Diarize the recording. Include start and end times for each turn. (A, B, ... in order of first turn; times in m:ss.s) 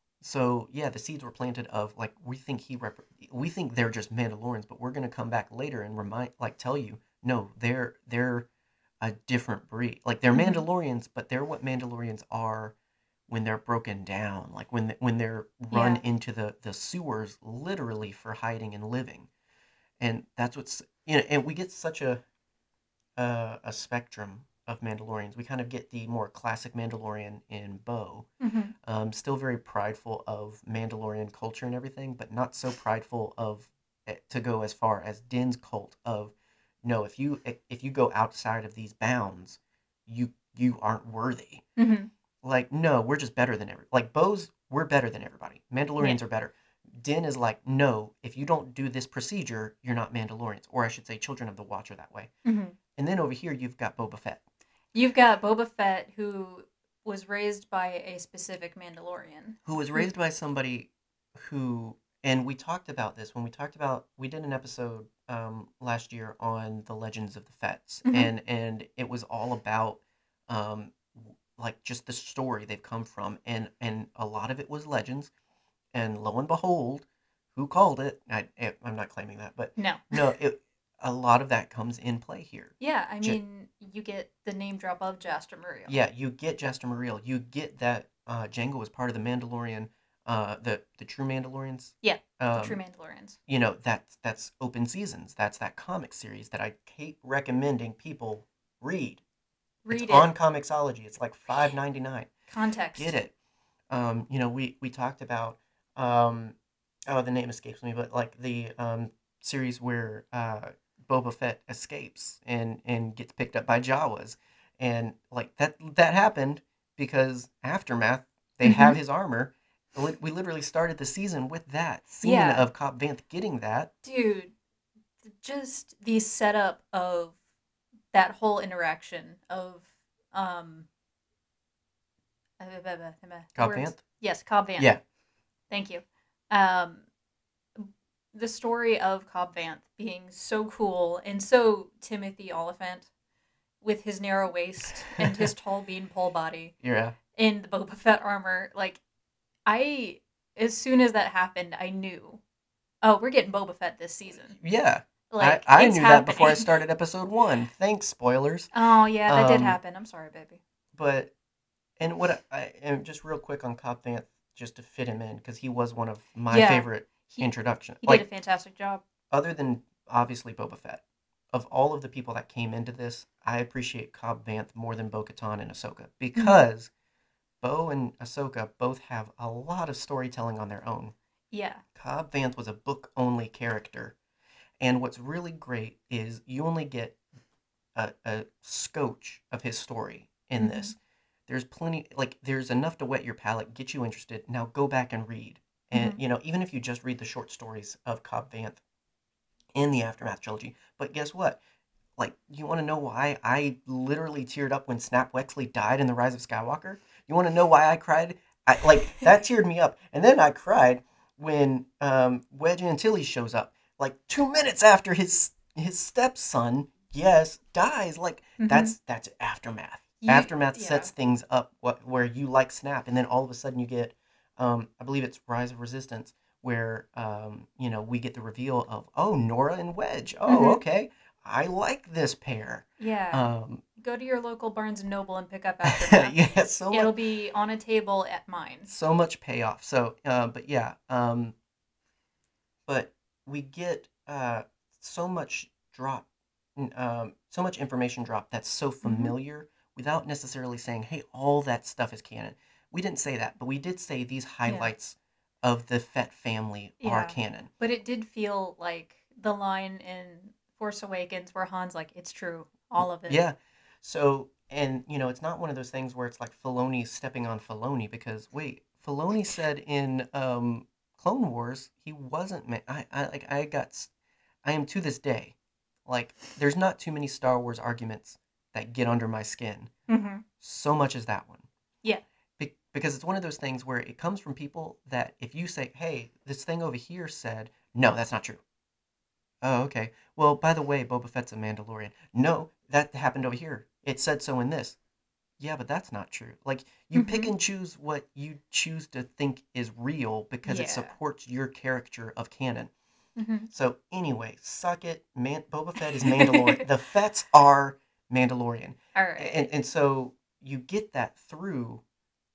0:00.2-0:08.5 A
0:09.0-0:12.8 A
0:10.3-0:10.6 B
0:13.3-0:19.3 A
0:15.7-0:16.0 B
0:20.0-0:22.2 A
0:23.2-0:28.3 A
0:28.4-0:28.7 B
0:28.8-0:41.6 A
0:41.8-0:42.1 B
0:42.4-0:52.3 A
0:52.4-0:52.8 B
0:53.0-0:54.4 A
0:54.9-1:00.1 B
0:59.6-1:15.3 A
1:08.0-1:08.3 B
1:15.9-1:23.4 A
1:19.8-1:20.3 B
1:22.8-1:26.0 B
1:25.9-1:32.8 A
1:32.0-1:33.4 B
1:33.5-1:39.2 A
1:39.8-1:40.3 B
1:39.9-1:42.3 A
1:42.5-1:43.1 B
1:43.0-1:43.3 A
1:43.9-1:46.6 A
1:47.1-2:03.9 A
1:58.6-1:59.0 B
2:02.2-2:02.6 B
2:04.0-2:04.5 B
2:05.2-2:07.4 B
2:08.1-2:10.9 B
2:12.6-2:14.9 B
2:13.6-2:14.0 A
2:15.7-2:17.0 B
2:17.8-2:23.1 B
2:23.8-2:26.7 B
2:25.2-2:25.5 A
2:26.8-2:27.2 A
2:27.3-2:29.0 B
2:29.7-2:32.4 B
2:33.0-2:34.6 B
2:34.5-2:38.7 A
2:35.3-2:36.7 B
2:38.7-2:40.6 B
2:39.3-2:39.8 A
2:41.0-2:41.3 A
2:42.0-2:48.2 A
2:46.5-2:47.5 B
2:48.0-2:49.0 B
2:49.3-2:56.9 A
2:57.6-3:01.1 A
3:01.5-3:01.8 B
3:02.0-3:04.2 A
3:04.8-3:07.2 A
3:08.0-3:11.0 A
3:10.6-3:10.9 B
3:11.5-3:18.8 A
3:15.9-3:16.2 B
3:19.8-3:21.6 A
3:22.2-3:53.8 A
3:38.6-3:38.9 B
3:40.2-3:41.1 B
3:50.5-3:50.8 B
3:53.0-3:58.9 B
3:55.8-3:57.1 A
3:58.9-4:01.6 A
4:02.9-4:17.7 A
4:09.0-4:09.3 B
4:14.7-4:14.9 B
4:17.0-4:23.4 B
4:23.3-4:34.1 A
4:34.6-4:35.6 A
4:36.1-4:39.9 A
4:40.1-4:40.4 B
4:40.6-4:41.7 A
4:42.6-4:48.6 A
4:49.6-4:55.0 A
4:55.6-5:02.9 A
4:57.2-4:57.5 B
5:00.6-5:01.2 B
5:03.4-5:03.7 B
5:03.7-5:12.0 A
5:06.3-5:06.8 B
5:09.2-5:09.7 B